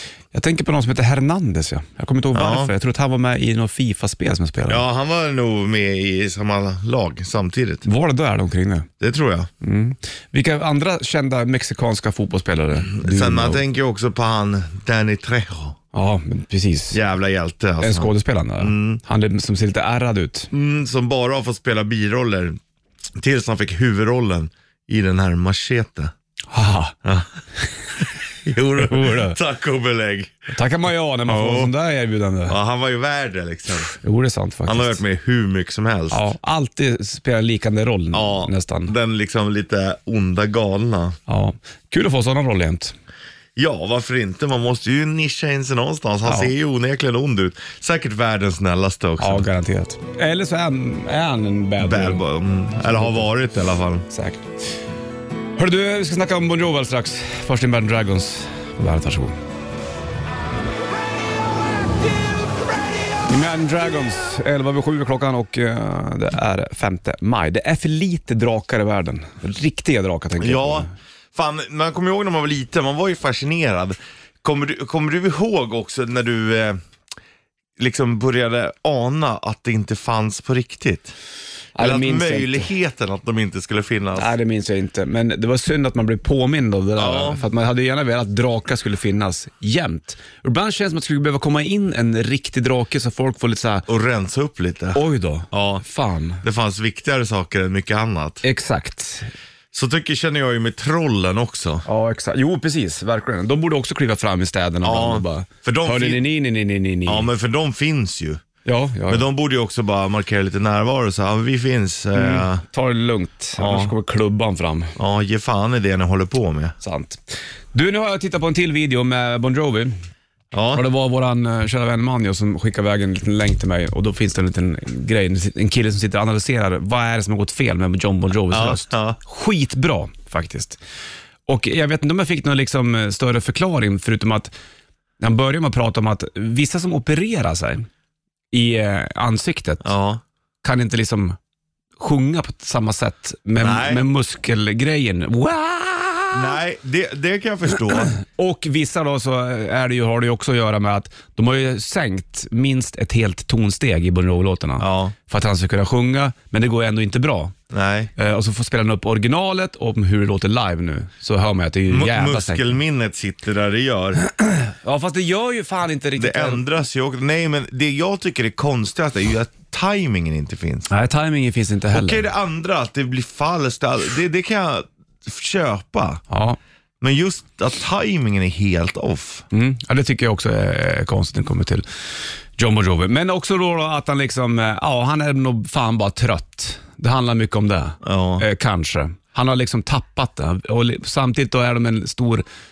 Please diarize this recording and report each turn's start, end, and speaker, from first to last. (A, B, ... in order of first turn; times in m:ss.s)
0:00.3-0:04.8 A
0:02.3-0:02.7 B
0:04.7-0:07.8 B
0:07.8-0:08.9 A
0:09.0-0:09.5 B
0:09.6-0:13.6 A
0:12.8-0:15.8 B
0:15.9-0:17.0 A
0:16.9-0:19.0 B
0:17.8-0:20.5 A
0:20.5-0:22.6 B
0:23.2-0:26.1 B
0:26.5-0:27.0 A
0:27.0-0:27.3 B
0:28.0-0:30.4 B
0:28.8-0:29.4 A
0:30.5-0:32.6 A
0:31.3-0:31.7 B
0:32.5-0:33.9 B
0:34.0-0:35.0 A
0:34.7-0:36.3 B
0:36.1-0:38.9 A
0:38.1-0:41.2 B
0:41.3-0:43.0 A
0:43.6-0:49.5 B
0:46.2-0:46.5 A
0:49.2-0:52.2 A
0:51.8-0:54.1 B
0:52.8-0:53.3 A
0:54.1-0:54.4 A
0:55.6-0:59.4 A
1:03.3-1:10.9 A
1:10.4-1:16.8 B
1:17.8-1:21.1 B
1:21.8-1:22.7 A
1:21.8-1:24.3 B
1:24.2-1:33.9 A
1:27.0-1:27.4 B
1:33.9-1:35.8 B
1:35.0-1:36.4 A
1:36.4-1:38.4 B
1:38.4-1:39.3 A
1:39.7-1:41.8 B
1:41.9-1:47.3 A
1:44.8-1:46.2 B
1:47.1-1:48.4 B
1:48.6-1:49.3 A
1:49.1-1:52.6 B
1:52.2-1:54.9 A
1:53.6-1:53.9 B
1:55.0-1:56.8 B
1:56.8-2:00.0 A
2:00.5-2:00.8 B
2:00.7-2:10.8 A
2:08.5-2:09.2 B
2:11.5-2:14.5 A
2:15.2-2:17.9 A
2:18.5-2:19.9 A
2:19.8-2:20.2 B
2:20.6-2:21.4 A
2:22.0-2:26.5 A
2:23.6-2:24.0 B
2:26.3-2:28.2 B
2:28.2-2:37.6 A
2:34.8-2:35.1 B
2:37.7-2:38.1 B
2:38.2-2:42.6 A
2:41.9-2:44.2 B
2:44.3-2:46.6 A
2:46.2-2:50.9 B
2:50.9-2:52.2 A
2:51.9-2:56.2 B
2:56.3-2:56.6 A
2:57.0-2:59.4 B
2:59.5-3:01.8 A
3:02.6-3:12.4 A
3:08.0-3:08.5 B